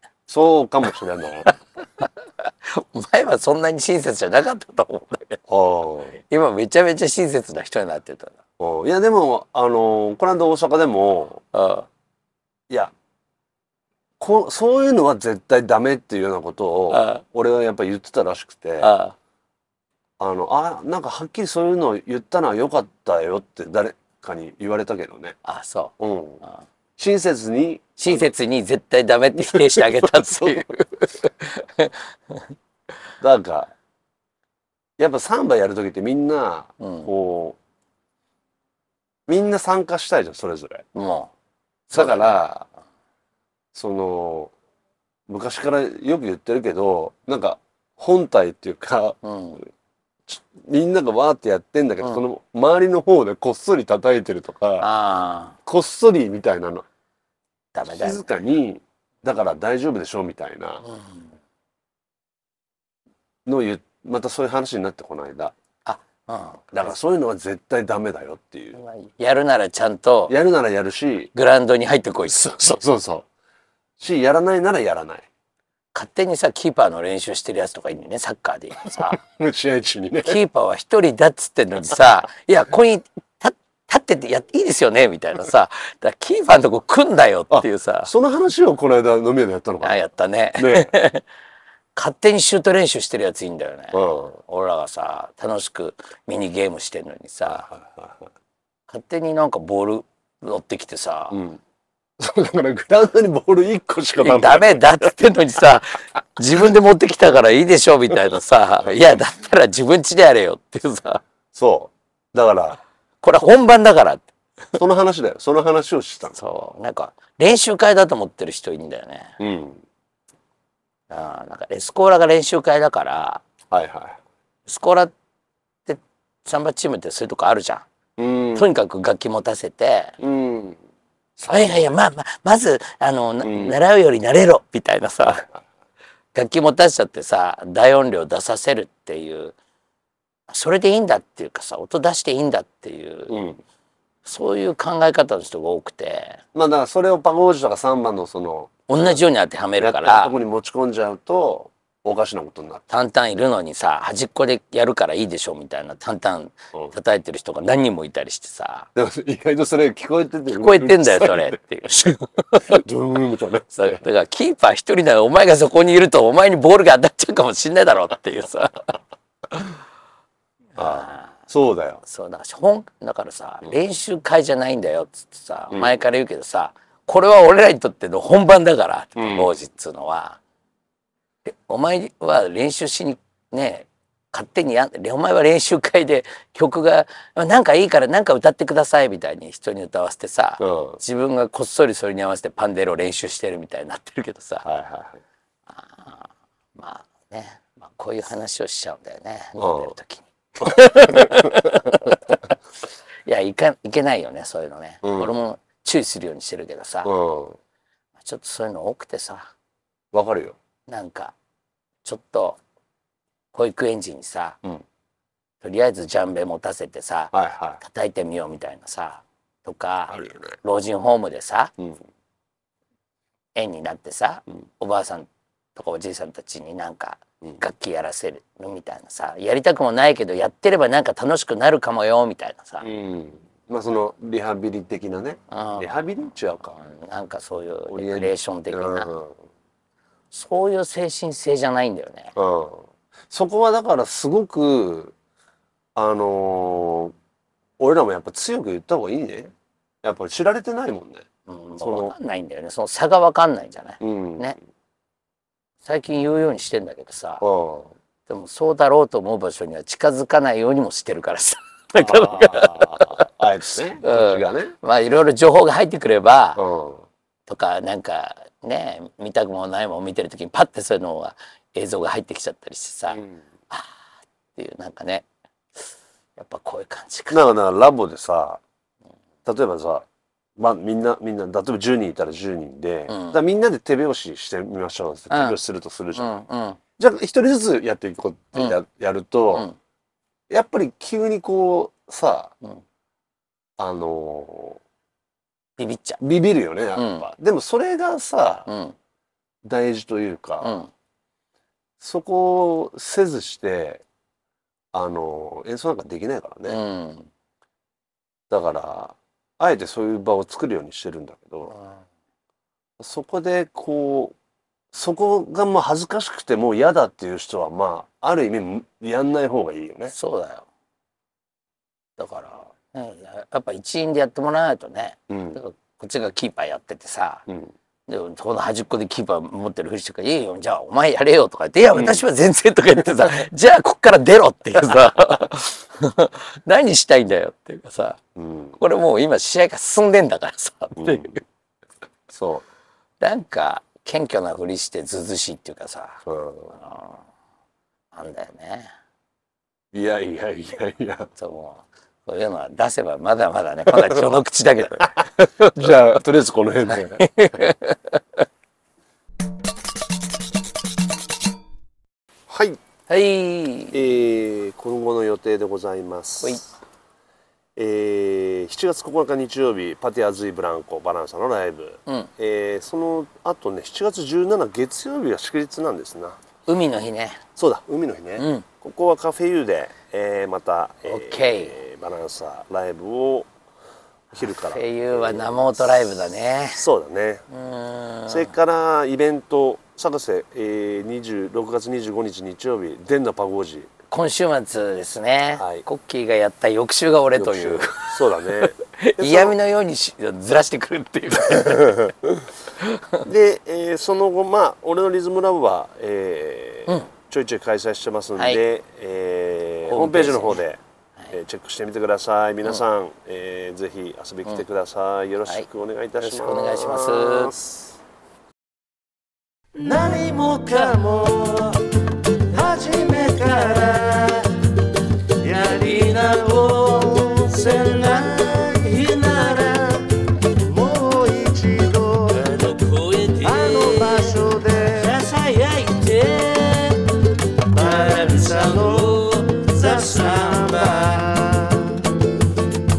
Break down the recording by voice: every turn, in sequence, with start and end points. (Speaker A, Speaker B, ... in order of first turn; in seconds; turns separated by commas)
Speaker A: 0.3-1.5, Speaker B: 1.4-5.4, Speaker A: 5.5-6.2, Speaker B: 6.3-8.4, Speaker A: 8.6-11.4, Speaker B: 11.5-11.9, Speaker A: 14.2-18.9, Speaker B: 16.9-17.2, Speaker B: 18.8-19.1, Speaker A: 20.2-25.4, Speaker B: 25.4-26.6, Speaker A: 26.0-26.4, Speaker A: 27.0-28.3, Speaker B: 28.0-32.4, Speaker A: 29.3-30.6, Speaker A: 33.2-33.7, Speaker A: 35.0-37.6, Speaker B: 36.8-37.1, Speaker A: 39.3-40.8, Speaker B: 40.9-41.3, Speaker B: 41.9-42.4, Speaker A: 41.9-42.6, Speaker A: 43.7-44.5, Speaker A: 45.3-49.2, Speaker B: 49.2-49.6, Speaker A: 50.3-54.9, Speaker B: 54.8-55.6, Speaker A: 55.6-56.8, Speaker B: 57.7-58.4, Speaker A: 57.9-60.8, Speaker B: 60.8-61.3, Speaker A: 63.4-65.5, Speaker B: 65.8-66.9, Speaker A: 66.7-68.8, Speaker B: 68.7-70.3, Speaker A: 70.3-71.3, Speaker B: 71.3-72.6, Speaker A: 72.3-73.2, Speaker A: 74.0-75.2, Speaker B: 75.9-79.2, Speaker A: 78.9-80.4, Speaker B: 80.2-88.1, Speaker A: 87.5-90.0, Speaker B: 89.8-91.2, Speaker A: 90.6-90.9, Speaker B: 91.9-97.7, Speaker A: 93.9-94.4, Speaker A: 97.4-98.3, Speaker B: 98.9-101.4, Speaker A: 101.3-101.6, Speaker A: 102.2-105.1, Speaker B: 104.2-111.2, Speaker A: 108.8-109.1, Speaker A: 111.5-112.8, Speaker B: 113.2-114.8, Speaker A: 114.8-116.4, Speaker B: 116.3-119.3, Speaker A: 119.4-119.8, Speaker B: 121.1-123.4, Speaker A: 123.7-124.2, Speaker B: 124.7-125.1, Speaker B: 125.8-127.8, Speaker A: 128.2-128.7, Speaker B: 128.5-130.2, Speaker A: 130.2-130.8, Speaker A: 131.4-131.9, Speaker B: 131.5-135.5, Speaker A: 133.4-133.7, Speaker B: 136.3-139.5, Speaker B: 140.5-143.4, Speaker A: 143.3-143.6, Speaker B: 144.2-146.4, Speaker A: 146.5-149.2, Speaker B: 148.9-150.3, Speaker A: 149.8-152.8, Speaker B: 152.9-158.9, Speaker A: 158.9-164.0, Speaker B: 160.5-162.8, Speaker B: 163.7-168.9, Speaker B: 170.8-171.4, Speaker A: 170.8-172.0, Speaker B: 172.0-180.4, Speaker A: 179.2-179.5, Speaker B: 181.4-194.7, Speaker A: 190.6-191.0, Speaker A: 194.6-195.2, Speaker B: 195.7-202.5, Speaker A: 199.6-199.9, Speaker A: 200.7-201.9, Speaker B: 203.2-207.1, Speaker A: 205.0-205.3, Speaker A: 207.0-207.6, Speaker B: 208.2-209.5, Speaker A: 210.1-210.6, Speaker B: 210.9-211.3, Speaker B: 212.0-212.6, Speaker B: 213.5-214.6, Speaker B: 215.6-221.7, Speaker A: 217.3-217.8, Speaker A: 220.1-220.5, Speaker B: 223.6-232.9, Speaker A: 232.8-236.8, Speaker B: 235.5-239.1, Speaker A: 237.9-239.4, Speaker B: 240.3-242.3, Speaker A: 242.3-245.1, Speaker A: 245.9-247.1, Speaker A: 247.8-251.3, Speaker B: 251.5-254.6, Speaker A: 251.8-252.1, Speaker A: 254.0-254.5, Speaker B: 255.8-257.4, Speaker A: 257.4-257.9, Speaker B: 258.3-263.3, Speaker A: 261.9-264.7, Speaker B: 264.0-266.6, Speaker A: 266.6-267.1, Speaker B: 267.5-274.0, Speaker A: 273.1-273.4, Speaker B: 274.5-275.2, Speaker B: 276.4-277.4, Speaker A: 277.3-278.6, Speaker A: 279.4-280.1, Speaker A: 280.6-286.3, Speaker B: 283.1-283.4, Speaker B: 285.3-285.6, Speaker B: 286.1-286.8, Speaker A: 287.0-289.7, Speaker A: 290.5-292.5, Speaker A: 293.8-294.8, Speaker B: 295.8-296.2, Speaker A: 296.2-298.7, Speaker B: 296.9-297.3, Speaker B: 298.7-298.9, Speaker A: 299.6-300.8, Speaker B: 300.6-300.9, Speaker A: 302.0-304.0, Speaker A: 304.9-306.8, Speaker B: 306.7-307.3, Speaker A: 308.5-311.7, Speaker B: 311.7-312.0, Speaker A: 313.0-314.3, Speaker A: 314.9-320.1, Speaker B: 320.1-320.7, Speaker B: 322.2-327.4, Speaker A: 325.3-325.6, Speaker A: 327.5-327.7, Speaker B: 328.1-338.2, Speaker A: 331.9-332.2, Speaker A: 338.4-338.8, Speaker B: 338.8-341.4, Speaker A: 341.0-341.4, Speaker A: 342.3-342.6, Speaker B: 343.2-347.2, Speaker A: 346.2-346.7, Speaker B: 348.1-348.9, Speaker A: 349.9-351.3, Speaker B: 351.4-355.8, Speaker A: 353.9-354.4, Speaker A: 355.6-357.7, Speaker B: 356.9-358.4, Speaker A: 362.5-362.8, Speaker B: 363.1-364.0, Speaker A: 363.9-366.6, Speaker B: 366.4-366.7, Speaker A: 367.8-376.4, Speaker B: 376.6-377.4, Speaker A: 377.6-383.5, Speaker B: 378.4-378.6, Speaker B: 381.0-381.8, Speaker A: 384.3-386.1, Speaker B: 384.3-386.9, Speaker A: 386.7-387.4, Speaker B: 387.5-388.5, Speaker A: 388.3-393.9, Speaker B: 394.1-402.1, Speaker A: 395.6-395.8, Speaker A: 397.4-399.5, Speaker A: 401.6-402.3, Speaker B: 402.8-403.2, Speaker A: 403.2-410.8, Speaker B: 408.4-408.6, Speaker B: 409.9-410.6, Speaker A: 411.3-418.0, Speaker B: 416.2-417.5, Speaker C: 419.7-424.6, Speaker C: 425.4-441.8, Speaker A: 433.4-435.1, Speaker A: 440.2-441.3